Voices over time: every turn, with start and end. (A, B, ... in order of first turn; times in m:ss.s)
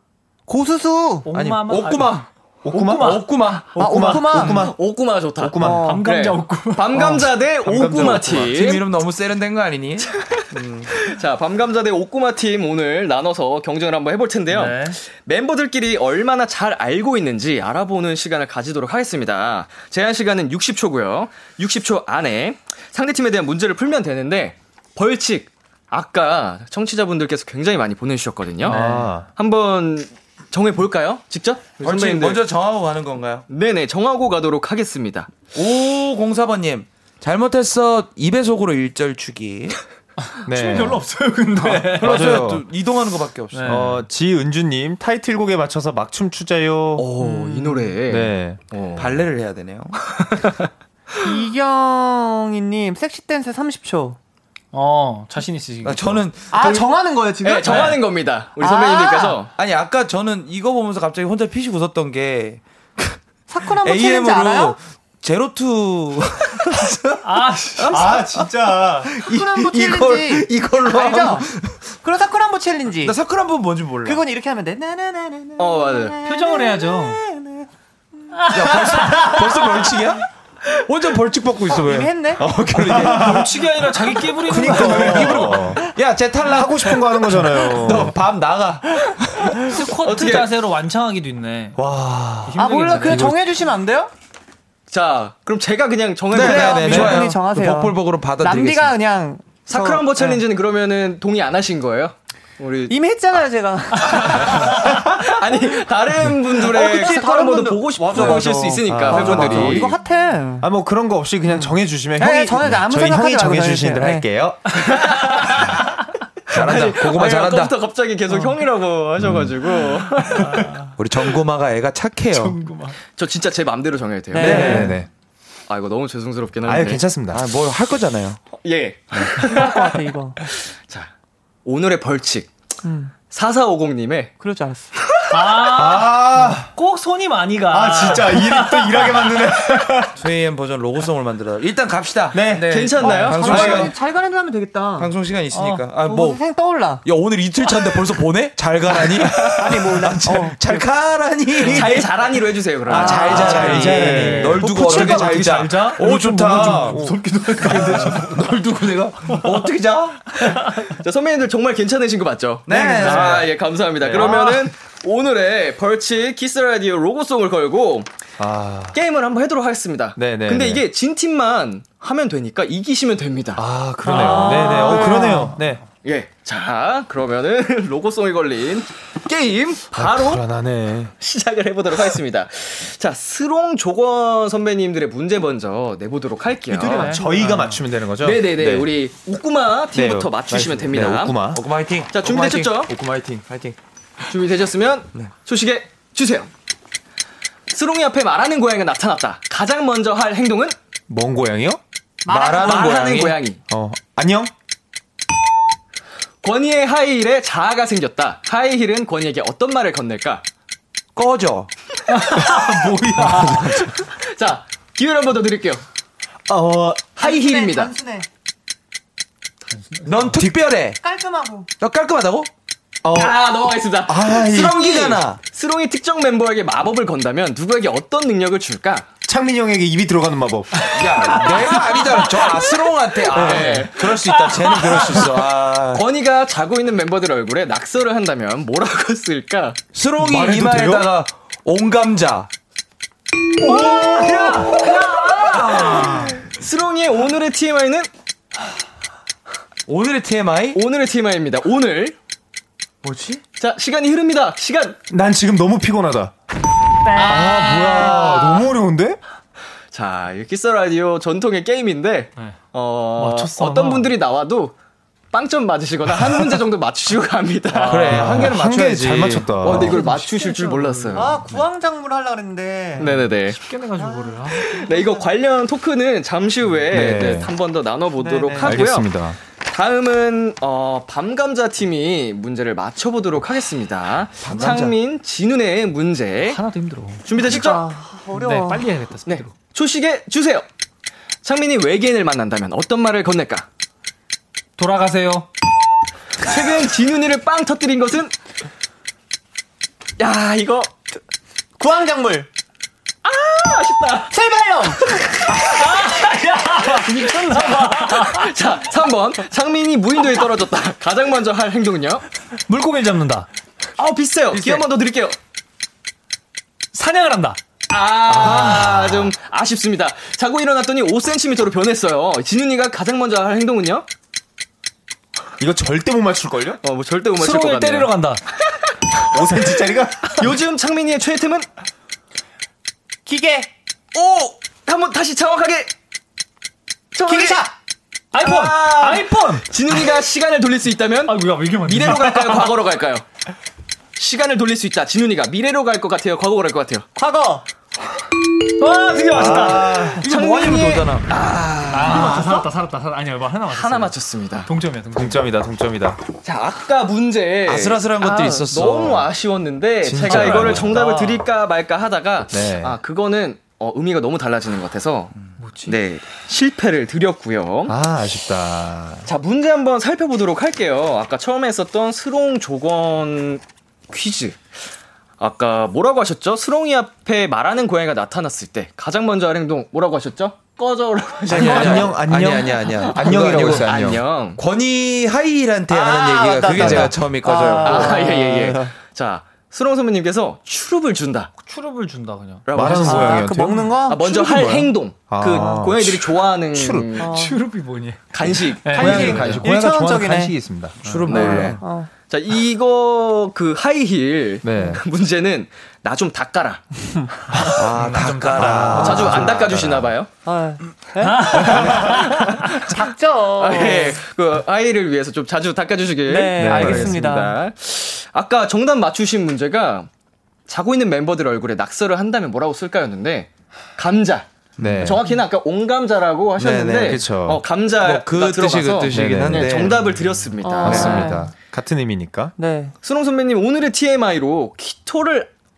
0:00.5-0:01.3 A
0:01.2-0:04.6 B
0:01.3-0:02.3 C
0:02.6-0:04.8 D
0:02.9-0:03.8 C
0:03.8-0:04.6 A
0:04.4-0:08.8 E
0:05.4-0:06.0 D
0:05.6-0:06.0 A
0:05.7-0:07.3 B
0:07.6-0:08.5 D
0:07.7-0:10.9 C
0:10.1-0:10.4 E
0:10.9-0:28.8 E
0:14.5-0:15.0 B
0:28.6-0:29.1 B
0:28.6-0:29.3 D
0:29.3-0:32.4 E
0:31.8-0:33.4 C
0:33.5-0:35.3 E
0:35.5-0:39.8 C
0:40.3-0:42.4 B
0:40.5-0:41.0 D
0:41.6-0:43.9 C
0:42.0-0:42.6 D
0:43.5-0:44.0 B
0:43.6-0:47.1 D
0:47.0-0:49.1 E
0:47.2-0:47.9 A
0:48.1-0:48.6 D
0:48.9-0:50.0 C
0:50.1-0:50.7 E
0:51.2-0:54.2 A
0:54.7-0:56.2 B
0:55.8-0:56.9 C
0:56.5-0:58.0 A
0:57.4-0:59.5 E
0:57.6-0:58.0 B
0:58.6-0:59.4 A
0:59.6-1:11.8 C
1:03.5-1:04.8 A
1:07.2-1:08.3 B
1:07.9-1:09.1 D
1:09.2-1:11.5 A
1:12.0-1:13.2 A
1:13.0-1:14.2 C
1:14.0-1:17.7 A
1:15.6-1:16.1 E
1:16.2-1:17.2 B
1:18.4-1:19.4 B
1:18.5-1:23.5 C
1:21.7-1:22.4 A
1:22.8-1:23.6 D
1:23.0-1:25.6 B
1:24.4-1:25.8 D
1:24.5-1:29.9 C
1:26.5-1:28.2 D
1:29.6-1:31.8 B
1:30.0-1:30.5 E
1:31.8-1:33.4 D
1:32.4-1:33.4 B
1:32.6-1:34.1 A
1:34.9-1:37.2 E
1:36.3-1:38.9 C
1:36.4-1:40.4 A
1:36.9-1:37.3 D
1:39.7-1:42.9 E
1:42.9-1:44.9 A
1:44.0-1:49.9 E
1:46.6-1:50.7 A
1:48.8-1:49.8 C
1:49.0-1:49.9 D
1:50.6-1:55.0 D
1:51.5-1:54.2 A
1:54.8-1:55.7 E
1:56.5-1:57.8 C
1:56.5-2:00.5 E
2:00.2-2:00.9 B
2:01.0-2:02.6 C
2:02.3-2:03.0 B
2:03.2-2:04.9 E
2:04.3-2:04.9 A
2:04.4-2:04.9 C
2:04.4-2:05.1 D
2:05.7-2:07.0 E
2:06.6-2:07.4 D
2:07.3-2:08.4 C
2:08.6-2:11.1 E
2:09.4-2:10.4 A
2:11.6-2:12.5 E
2:12.8-2:13.1 A
2:13.3-2:14.3 E
2:14.4-2:14.9 A
2:15.3-2:19.4 B
2:15.6-2:16.7 D
2:17.7-2:20.1 D
2:20.2-2:23.9 C
2:22.3-2:23.9 D
2:22.7-2:23.8 E
2:23.2-2:27.0 A
2:25.0-2:26.4 C
2:27.0-2:32.1 C
2:29.3-2:30.8 A
2:31.6-2:33.5 E
2:32.9-2:40.4 C
2:32.9-2:34.4 A
2:33.1-2:38.4 B
2:33.3-2:35.4 D
2:36.4-2:37.2 D
2:39.3-2:39.6 B
2:40.4-2:40.9 B
2:40.7-2:48.1 E
2:42.7-2:43.5 C
2:42.8-2:43.5 B
2:44.0-2:44.4 D
2:44.2-2:44.6 B
2:48.4-2:49.0 D
2:48.9-2:55.2 E
2:50.2-2:50.8 D
2:53.6-2:55.8 D
2:54.1-2:55.5 A
2:54.2-2:55.5 B
2:56.0-3:00.4 E
2:59.9-3:01.1 D
3:01.2-3:07.1 E
3:06.7-3:07.8 B
3:06.8-3:08.9 D
3:08.2-3:11.4 E
3:09.9-3:11.6 D
3:10.5-3:12.8 C
3:12.1-3:12.9 E
3:12.8-3:13.4 D
3:13.4-3:13.8 C
3:14.3-3:16.5 E
3:17.7-3:20.8 E
3:21.1-3:21.8 D
3:22.2-3:23.0 A
3:22.3-3:23.4 C
3:22.6-3:23.6 E
3:23.7-3:24.5 D
3:26.4-3:30.4 E
3:31.1-3:31.7 C
3:32.1-3:33.8 B
3:32.5-3:33.8 D
3:34.0-3:35.8 E
3:36.5-3:37.1 D
3:37.2-3:37.9 E
3:37.2-3:38.3 A
3:39.8-3:40.4 B
3:40.0-3:41.0 C
3:41.0-3:41.7 A
3:41.8-3:42.5 C
3:43.0-3:43.4 D
3:43.1-3:49.1 E
3:44.1-3:44.8 D
3:44.4-3:45.4 C
3:49.2-3:50.9 D
3:50.9-3:56.0 C
3:50.9-3:52.4 B
3:53.3-3:54.2 E
3:53.3-3:53.8 D
3:54.3-3:55.2 B
3:55.9-3:59.8 E
3:59.9-4:02.5 C
4:00.2-4:01.1 D
4:03.6-4:08.1 E
4:03.7-4:06.1 C
4:03.9-4:04.8 B
4:04.2-4:04.5 D
4:05.9-4:06.3 D
4:09.9-4:10.8 C
4:10.7-4:12.2 E
4:13.0-4:13.4 C
4:13.6-4:15.0 E
4:15.1-4:16.3 D
4:17.0-4:18.5 B
4:17.2-4:19.2 D
4:17.3-4:18.4 A
4:19.9-4:24.7 E
4:23.2-4:24.1 B
4:25.3-4:28.5 E
4:27.7-4:28.4 B
4:27.8-4:30.0 C
4:28.1-4:30.0 D
4:29.6-4:31.4 E
4:29.8-4:31.4 B
4:31.1-4:33.2 A
4:33.0-4:33.6 E
4:33.0-4:34.8 B
4:34.0-4:35.2 A
4:34.6-4:46.6 E
4:36.9-4:37.5 D
4:38.2-4:38.8 A
4:38.6-4:39.4 D
4:44.4-4:45.0 C
4:46.4-4:47.3 B
4:47.2-4:47.8 E
4:47.4-4:48.9 A
4:48.3-4:49.5 B
4:49.3-4:50.6 E
4:51.4-4:53.6 E
4:54.8-4:55.5 B
4:56.4-4:58.3 E
5:00.2-5:00.9 E
5:01.8-5:02.5 A
5:03.2-5:04.3 E
5:04.3-5:05.0 A
5:05.2-5:06.1 E
5:05.5-5:08.5 B
5:06.9-5:12.2 E
5:12.7-5:13.5 B
5:14.0-5:15.4 E
5:16.9-5:17.6 B
5:17.9-5:24.0 E
5:18.3-5:19.3 D
5:18.4-5:18.9 B
5:25.6-5:26.8 D
5:26.8-5:28.1 E
5:27.4-5:28.4 B
5:29.3-5:30.5 D
5:30.2-5:31.7 E
5:33.2-5:33.7 A
5:34.1-5:35.9 E
5:37.1-5:37.6 E
5:37.2-5:37.7 A
5:38.3-5:39.7 B
5:38.4-5:43.2 E
5:41.2-5:42.7 B
5:44.2-5:47.0 E
5:47.2-5:47.6 A
5:48.8-5:50.0 B
5:49.1-5:52.6 E
5:49.3-5:50.2 D
5:49.5-5:51.2 C
5:51.9-5:55.5 B
5:53.7-5:54.7 E
5:55.1-5:56.2 D
5:56.4-6:05.4 E
5:57.6-5:59.3 C
6:00.0-6:01.0 D
6:00.2-6:01.5 B
6:02.5-6:03.0 D
6:05.6-6:06.0 B
6:05.9-6:07.9 E
6:07.9-6:09.2 D
6:09.2-6:14.6 E
6:15.4-6:22.2 E
6:21.5-6:24.0 C
6:21.5-6:24.2 D
6:23.2-6:24.6 E
6:24.6-6:28.2 C
6:25.9-6:28.9 A
6:26.7-6:27.1 D
6:27.8-6:31.5 E
6:31.6-6:32.7 B
6:32.7-6:33.5 E
6:32.7-6:37.2 D
6:33.0-6:34.8 A
6:34.0-6:37.3 E
6:37.2-6:37.6 A
6:37.2-6:39.6 B
6:38.3-6:39.6 E
6:38.9-6:41.8 D
6:39.6-6:40.5 A
6:41.0-6:41.8 C
6:41.0-6:41.5 B
6:41.3-6:46.9 E
6:41.6-6:42.1 A
6:44.6-6:45.0 D
6:47.6-6:49.3 B
6:47.7-6:50.0 C
6:48.5-6:50.0 D
6:48.9-6:50.3 E
6:50.4-6:54.2 A
6:51.2-6:52.6 B
6:51.6-6:52.9 E
6:53.6-7:00.1 E
6:56.3-6:57.6 A
6:56.6-6:57.2 D
7:00.7-7:11.4 E
7:04.8-7:05.2 C
7:04.8-7:05.2 D
7:06.6-7:07.2 C
7:07.0-7:07.6 D
7:08.0-7:10.0 C
7:09.1-7:09.9 D
7:10.6-7:11.5 A
7:10.8-7:12.5 D
7:10.8-7:11.2 C
7:12.6-7:12.9 A
7:13.0-7:15.5 E